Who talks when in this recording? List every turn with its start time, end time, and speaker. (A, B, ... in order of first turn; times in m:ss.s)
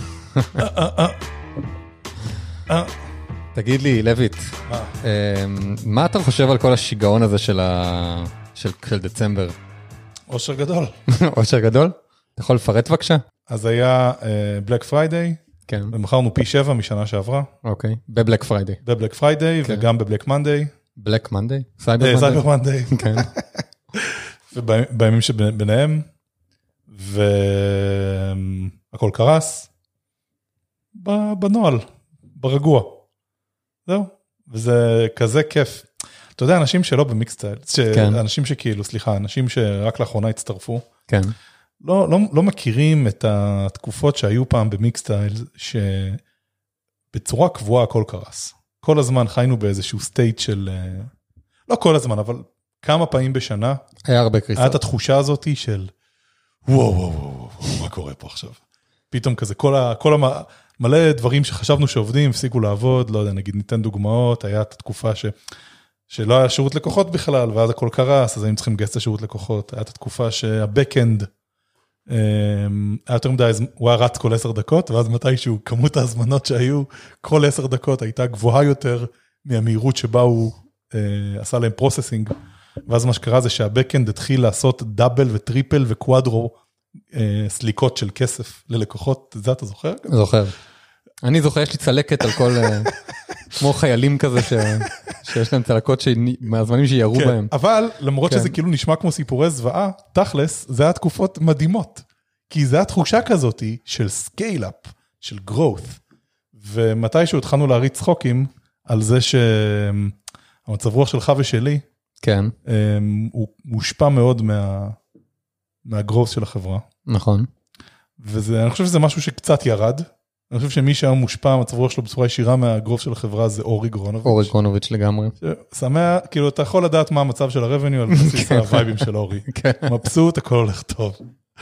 0:00.4-0:00.6 A
0:00.5-0:01.2 B
0:02.7-0:02.9 B
0:03.5-0:09.6 A
0:04.7-0:05.0 B
0:10.3-0:11.0 B
0:11.1-0:13.2 A
0:13.5-0:17.5 B
0:15.7-0:15.9 A
0:17.6-0:18.8 A
0:18.8-0:20.7 B
0:21.0-0:23.3 A
0:22.0-0:26.1 B
0:26.9-0:29.7 B
0:31.0-0:31.8 B
0:32.4-0:33.0 B
0:33.9-0:40.9 B
0:37.9-0:38.2 A
0:41.1-0:41.4 A
0:41.8-0:46.2 B
0:47.1-0:51.1 B
0:51.7-0:53.8 B
0:54.1-0:54.8 A
0:54.6-0:55.9 B
0:56.7-0:58.6 B
0:59.1-1:05.4 B
1:06.1-1:11.3 B
1:12.1-1:22.3 B
1:22.9-1:26.6 B
1:27.1-1:30.2 B
1:30.1-1:30.5 A
1:31.2-1:33.0 A
1:33.5-1:37.5 A
1:37.1-1:46.0 B
1:38.2-1:38.6 A
1:46.6-1:50.2 B
1:50.7-1:51.8 B
1:52.2-1:52.5 A
1:52.7-1:55.0 B
1:55.8-1:56.8 B
1:57.1-1:57.5 A
1:58.2-2:04.5 B
2:04.2-2:05.3 A
2:05.4-2:11.2 B
2:08.1-2:09.9 A